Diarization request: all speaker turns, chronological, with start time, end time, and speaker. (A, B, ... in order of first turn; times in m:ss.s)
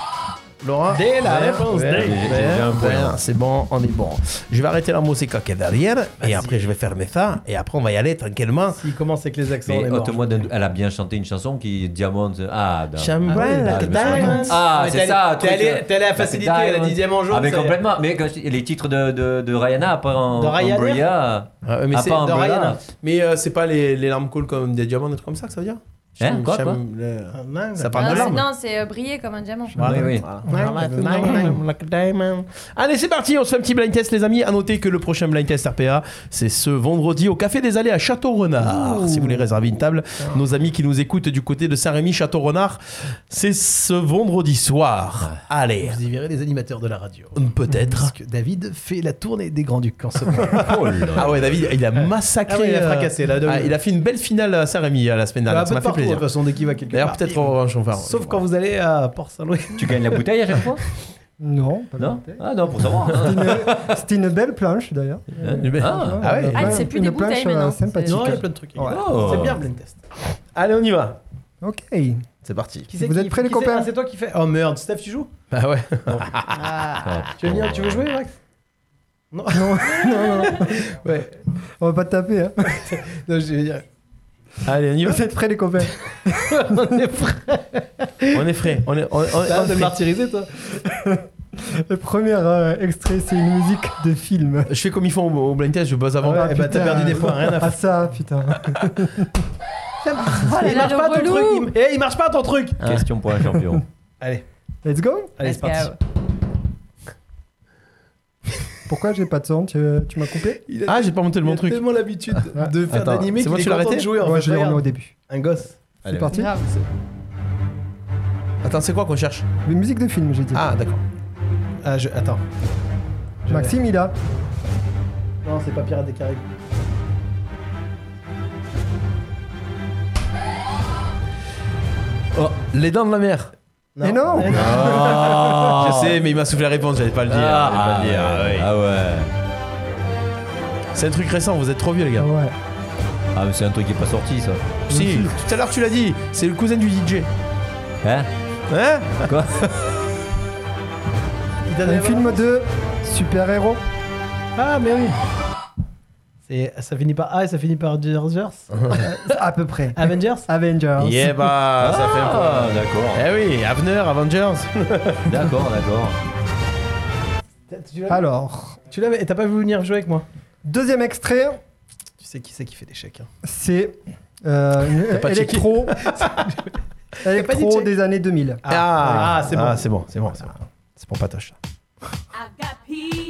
0:00.6-0:08.8 A
0:00.9-0:02.3 B
0:01.8-0:03.2 C
0:06.2-0:06.6 B
0:08.8-0:10.5 B
0:09.6-0:22.8 C
0:13.0-0:14.5 A
0:13.3-0:17.8 B
0:20.4-0:21.0 B
0:21.6-0:28.4 A
0:22.2-0:22.8 B
0:26.2-0:26.8 C
0:27.3-0:28.4 B
0:28.0-0:29.8 D
0:29.8-0:46.0 A
0:29.8-0:30.2 C
0:29.8-0:31.6 B
0:38.8-0:39.4 E
0:45.8-0:51.1 B
0:47.4-0:48.1 A
0:50.6-0:51.4 C
0:51.1-0:56.3 A
0:52.5-0:53.7 B
0:55.5-0:59.9 B
0:56.9-0:58.4 A
0:59.8-1:00.8 C
1:01.4-1:02.5 E
1:02.0-1:03.7 C
1:03.1-1:09.2 E
1:05.4-1:06.2 C
1:05.6-1:06.8 A
1:06.5-1:08.4 D
1:08.0-1:10.0 B
1:08.9-1:09.6 C
1:10.5-1:11.2 A
1:11.6-1:12.3 E
1:12.4-1:12.9 A
1:12.9-1:15.3 B
1:12.9-1:13.9 E
1:15.5-1:16.8 A
1:16.6-1:18.4 B
1:17.0-1:18.0 C
1:19.3-1:21.4 B
1:19.5-1:20.8 E
1:21.8-1:22.9 E
1:22.7-1:23.8 B
1:24.6-1:25.2 A
1:25.0-1:26.8 E
1:26.4-1:28.3 B
1:28.3-1:30.0 A
1:29.4-1:30.5 B
1:30.7-1:34.7 E
1:34.7-1:37.1 A
1:36.2-1:37.8 B
1:36.3-1:39.4 E
1:40.0-1:42.8 B
1:40.3-1:41.7 D
1:42.8-1:43.8 C
1:44.8-1:45.4 E
1:45.4-1:45.9 B
1:45.4-1:46.0 D
1:48.9-1:50.6 E
1:50.7-1:55.8 B
1:50.9-1:51.9 A
1:52.9-1:54.1 A
1:54.2-1:55.1 E
1:56.0-1:56.5 E
1:56.3-1:56.6 D
1:58.6-1:59.4 A
1:59.6-2:00.7 E
2:00.5-2:01.0 A
2:01.8-2:02.4 B
2:03.4-2:03.7 B
2:03.5-2:04.1 E
2:05.4-2:06.4 B
2:12.7-2:13.5 A
2:13.9-2:15.0 B
2:14.0-2:15.7 E
2:14.6-2:16.2 C
2:15.7-2:18.7 A
2:17.3-2:19.3 C
2:20.9-2:22.3 A
2:22.2-2:22.5 E
2:23.3-2:24.6 C
2:24.9-2:27.3 A
2:24.9-2:25.3 E
2:28.7-2:29.4 A
2:29.2-2:29.5 C
2:31.7-2:32.4 B
2:31.8-2:33.8 E
2:34.6-2:35.2 B
2:36.5-2:38.7 B
2:38.7-2:39.0 A
2:39.0-2:41.4 E
2:40.0-2:40.4 B
2:41.0-2:45.3 A
2:41.8-2:43.2 C
2:45.2-2:46.2 C
2:47.7-2:48.2 B
2:48.1-2:48.8 E
2:48.9-2:50.2 B
2:50.6-2:51.6 E
2:52.2-2:53.3 B
2:53.4-2:56.0 E
2:55.1-2:56.2 A
2:56.4-2:56.7 B
2:57.2-2:58.6 E
2:57.2-2:57.9 B
2:58.6-2:59.8 B
2:58.7-3:01.6 A